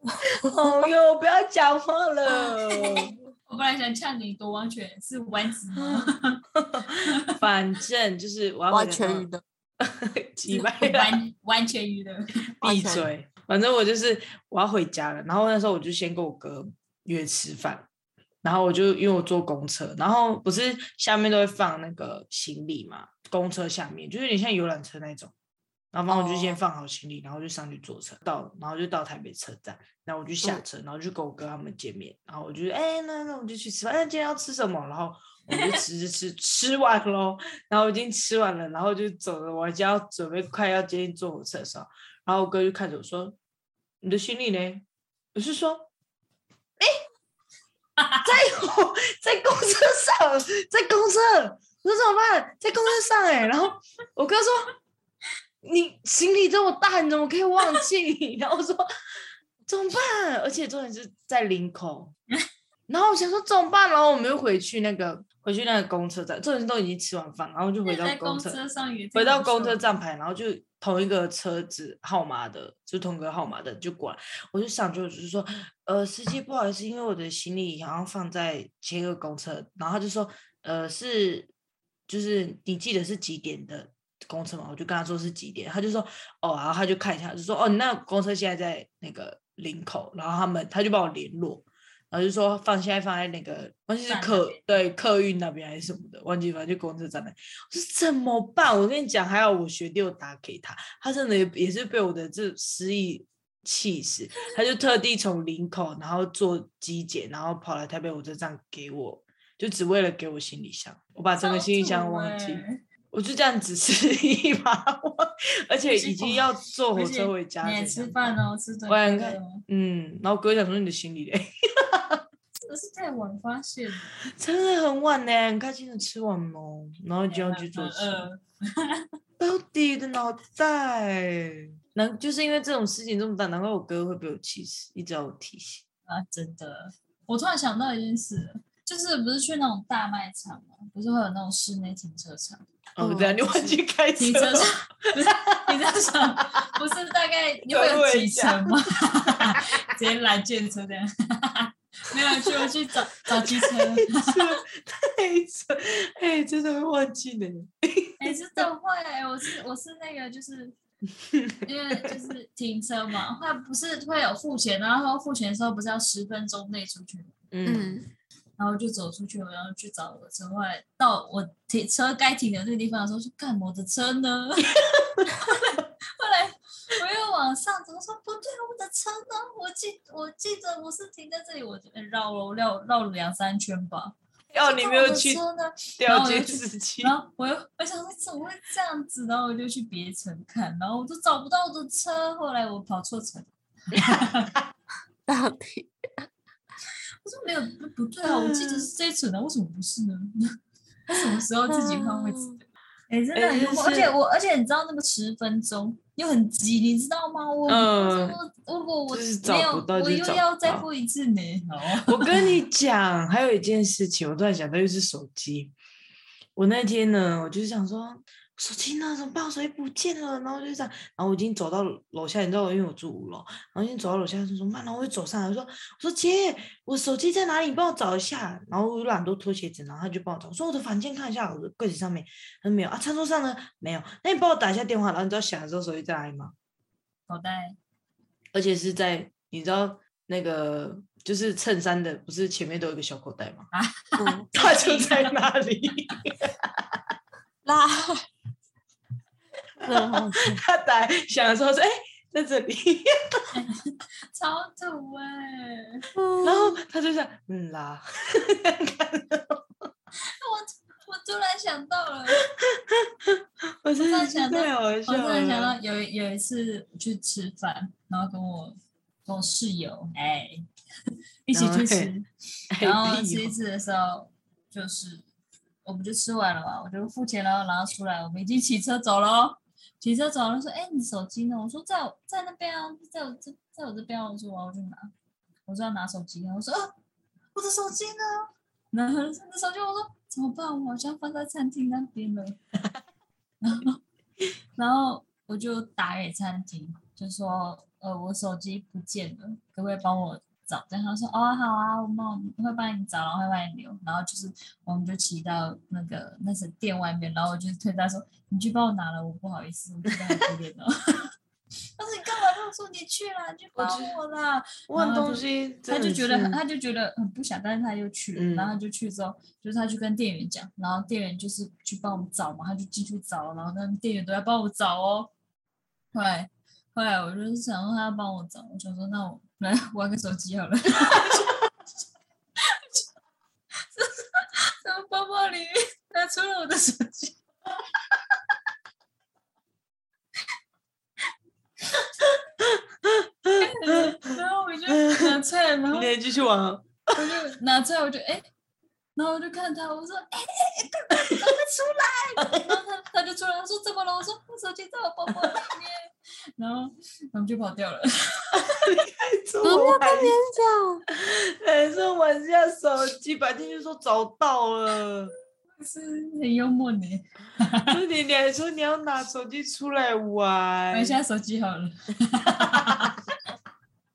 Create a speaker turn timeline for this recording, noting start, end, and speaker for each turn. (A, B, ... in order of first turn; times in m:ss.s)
0:00.3-0:03.1 A
0:02.7-0:06.4 B
0:05.8-0:09.3 A
0:08.7-0:09.4 C
0:09.8-0:11.1 A
0:10.5-0:12.3 B
0:12.6-0:13.1 C
0:12.6-0:17.9 A
0:18.4-0:25.3 A
0:25.9-0:43.4 A
0:26.1-0:26.6 C
0:44.0-0:44.8 A
0:45.3-0:45.9 A
0:48.2-0:54.7 A
0:55.6-0:58.9 A
0:59.6-1:02.1 A
1:02.9-1:08.6 A
1:07.8-1:09.8 B
1:09.1-1:21.5 A
1:22.1-1:58.4 A
1:34.1-1:34.8 B
1:51.4-1:52.8 B
1:55.9-1:59.6 B
1:58.9-2:02.2 A
2:02.6-2:04.1 B
2:04.3-2:08.3 A
2:07.3-2:09.1 B
2:09.4-2:15.8 A
2:16.1-2:22.6 B
2:23.0-2:26.7 A
2:23.0-2:23.8 C
2:24.2-2:34.6 B
2:27.7-2:29.9 A
2:33.4-2:38.6 A
2:38.2-2:40.7 B
2:41.3-2:42.1 A
2:41.6-2:47.3 B
2:47.5-2:48.0 A
2:47.6-2:48.1 C
2:48.6-3:14.5 B
3:04.5-3:05.4 A
3:06.0-3:07.1 A
3:13.9-3:14.3 A
3:15.3-3:16.3 C
3:17.2-3:20.6 B
3:18.2-3:18.9 A
3:21.1-3:32.5 B
3:21.1-3:22.6 C
3:23.3-3:24.1 A
3:27.7-3:28.4 A
3:29.1-3:30.9 A
3:32.0-3:35.7 A
3:36.6-3:56.5 A
3:57.3-3:57.8 B
3:58.5-4:03.7 A
4:03.7-4:05.4 B
4:04.2-4:04.5 C
4:04.5-4:06.6 A
4:07.6-4:08.2 C
4:09.8-4:13.5 A
4:09.8-4:10.6 C
4:13.5-4:16.0 B
4:16.2-4:16.8 C
4:16.4-4:19.6 A
4:20.4-4:22.4 B
4:22.6-4:25.8 A
4:24.0-4:30.6 B
4:31.5-4:32.3 B
4:31.5-4:32.1 A
4:32.7-4:33.5 A
4:32.8-4:35.2 B
4:35.8-4:45.1 B
4:45.7-4:46.9 B
4:47.5-4:52.6 B
4:53.6-4:54.0 B
4:54.8-5:11.3 B
5:10.1-5:10.4 A
5:12.0-5:25.3 B
5:13.8-5:14.2 A
5:14.9-5:16.6 A
5:18.3-5:18.8 A
5:26.1-5:31.6 B
5:32.6-5:33.0 B
5:33.9-5:37.4 B
5:42.6-5:44.4 A
5:43.6-5:46.1 B
5:44.9-5:45.4 A
5:45.9-5:47.4 A
5:47.2-5:48.5 B
5:49.2-5:58.8 B
5:51.1-5:51.4 A
5:52.4-5:52.8 A
5:58.5-6:00.3 A
5:59.6-6:01.0 C
6:01.1-6:05.3 A
6:05.8-6:08.0 B
6:07.9-6:11.2 A
6:10.9-6:13.2 B
6:12.6-6:13.1 A